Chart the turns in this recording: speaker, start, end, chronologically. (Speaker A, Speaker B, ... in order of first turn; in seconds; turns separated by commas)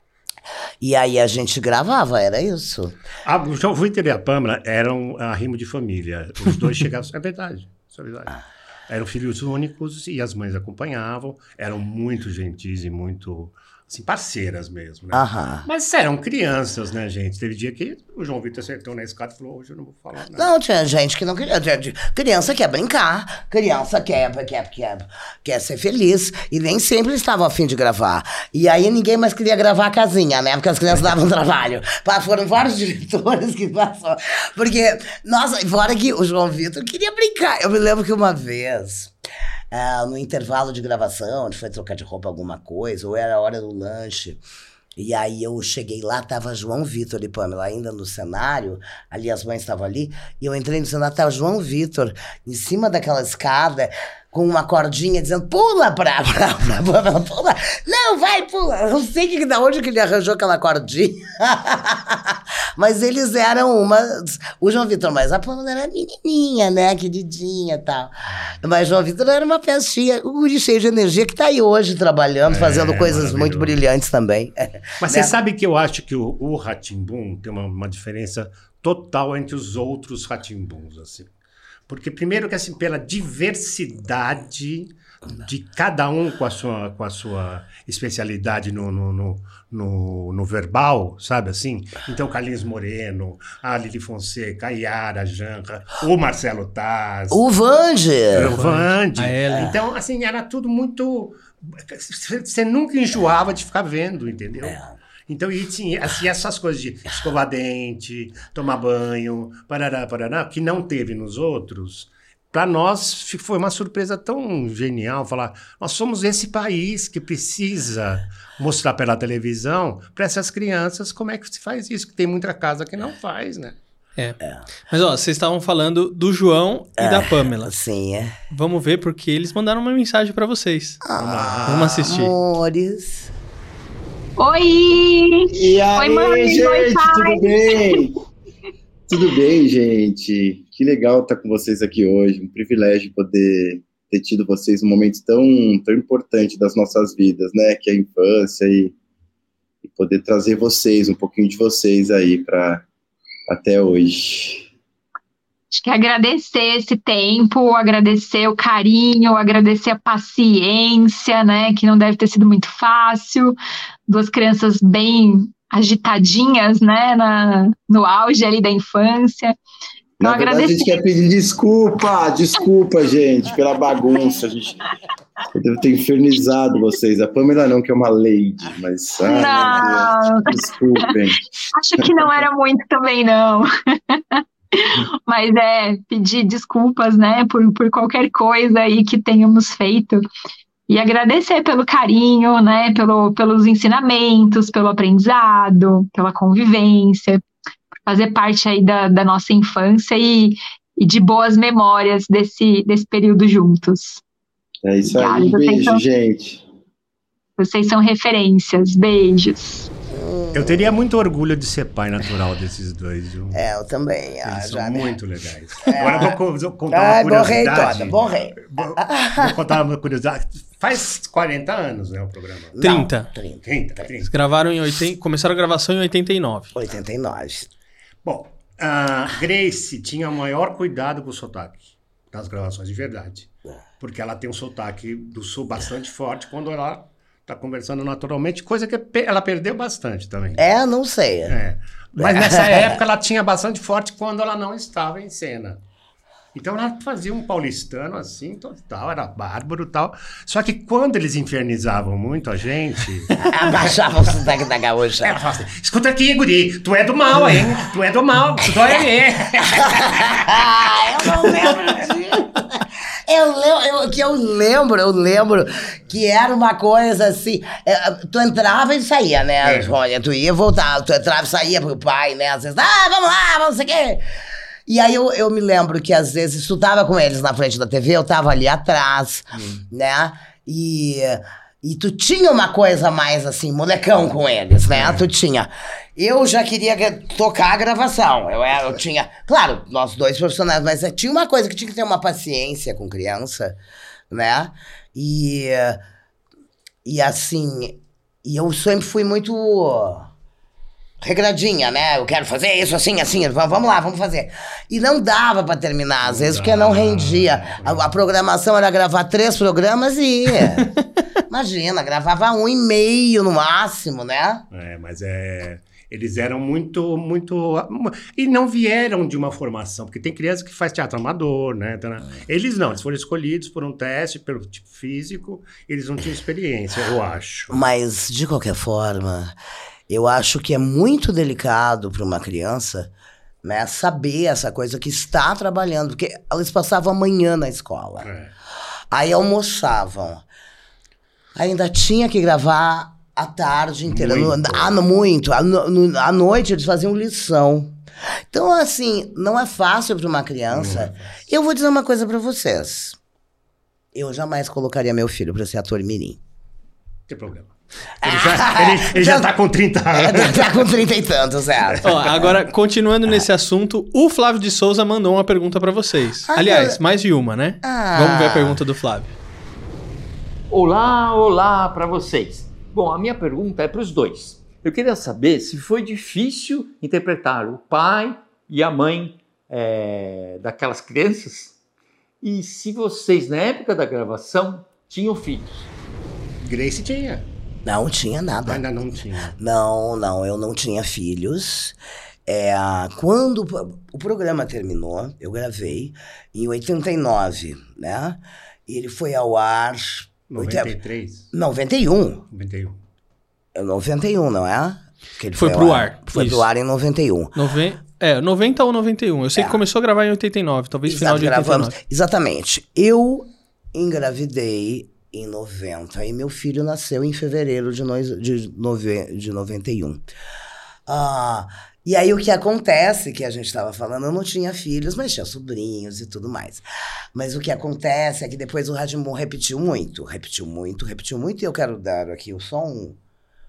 Speaker A: 0.8-3.0, Speaker B: 3.2-20.5, Speaker A: 15.1-15.7, Speaker A: 20.4-39.1, Speaker A: 39.7-44.4, Speaker A: 45.0-75.3, Speaker B: 72.5-73.8, Speaker B: 75.0-81.3, Speaker B: 81.9-97.4, Speaker A: 97.3-98.6, Speaker B: 98.3-123.8, Speaker C: 98.5-99.8, Speaker A: 104.6-104.9, Speaker A: 124.4-124.7, Speaker C: 124.9-127.7, Speaker A: 127.0-128.3, Speaker C: 128.5-131.0, Speaker A: 131.0-133.3, Speaker B: 131.2-132.2, Speaker C: 131.7-132.3, Speaker D: 134.4-138.0, Speaker E: 135.5-138.1, Speaker E: 139.1-148.9, Speaker E: 149.8-152.8, Speaker E: 153.5-154.7, Speaker D: 155.7-163.6, Speaker D: 164.1-169.6, Speaker E: 170.2-174.8, Speaker D: 170.2-170.9, Speaker E: 175.6-181.4, Speaker D: 179.2-180.6, Speaker D: 181.7-190.2, Speaker E: 182.0-182.4, Speaker D: 190.9-197.4, Speaker D: 198.1-204.2, Speaker E: 204.8-206.6, Speaker D: 205.1-206.0, Speaker D: 207.6-209.9, Speaker A: 210.1-210.9, Speaker B: 210.5-213.6, Speaker A: 213.5-215.1, Speaker B: 214.4-222.8, Speaker A: 215.8-216.4, Speaker A: 216.9-219.6, Speaker A: 222.7-224.2, Speaker C: 222.8-223.3, Speaker B: 223.7-224.3, Speaker C: 224.3-226.7, Speaker A: 226.7-227.7, Speaker B: 228.2-240.6, Speaker A: 240.6-241.6, Speaker B: 241.5-245.8, Speaker A: 242.2-243.0, Speaker B: 246.5-253.9, Speaker A: 253.4-255.4, Speaker B: 255.2-260.1, Speaker A: 259.6-274.2, Speaker B: 269.6-269.9, Speaker A: 274.9-293.8, Speaker B: 284.9-285.2, Speaker A: 294.3-296.0, Speaker A: 297.1-300.3, Speaker A: 301.2-310.9, Speaker B: 306.2-308.1, Speaker A: 311.5-314.7, Speaker B: 314.7-327.8, Speaker A: 327.7-329.6, Speaker A: 330.1-333.1, Speaker A: 333.6-338.3, Speaker B: 338.2-338.5, Speaker A: 339.1-340.4, Speaker A: 341.6-348.0, Speaker B: 344.1-345.0, Speaker A: 348.5-353.2, Speaker B: 350.7-351.4, Speaker A: 354.1-356.4, Speaker B: 357.3-360.9, Speaker A: 358.2-359.5, Speaker A: 360.1-362.5, Speaker C: 362.0-369.3, Speaker A: 366.5-367.0, Speaker A: 367.8-368.8, Speaker F: 370.7-381.8, Speaker F: 382.4-385.9, Speaker B: 386.6-387.5, Speaker A: 387.9-388.9, Speaker B: 388.7-389.6, Speaker A: 389.5-401.0, Speaker B: 400.5-401.5, Speaker A: 401.5-402.4, Speaker B: 402.5-403.0, Speaker A: 403.8-407.6, Speaker C: 405.6-406.7, Speaker C: 407.6-412.0, Speaker A: 409.6-409.8, Speaker A: 411.1-420.2, Speaker A: 421.1-433.2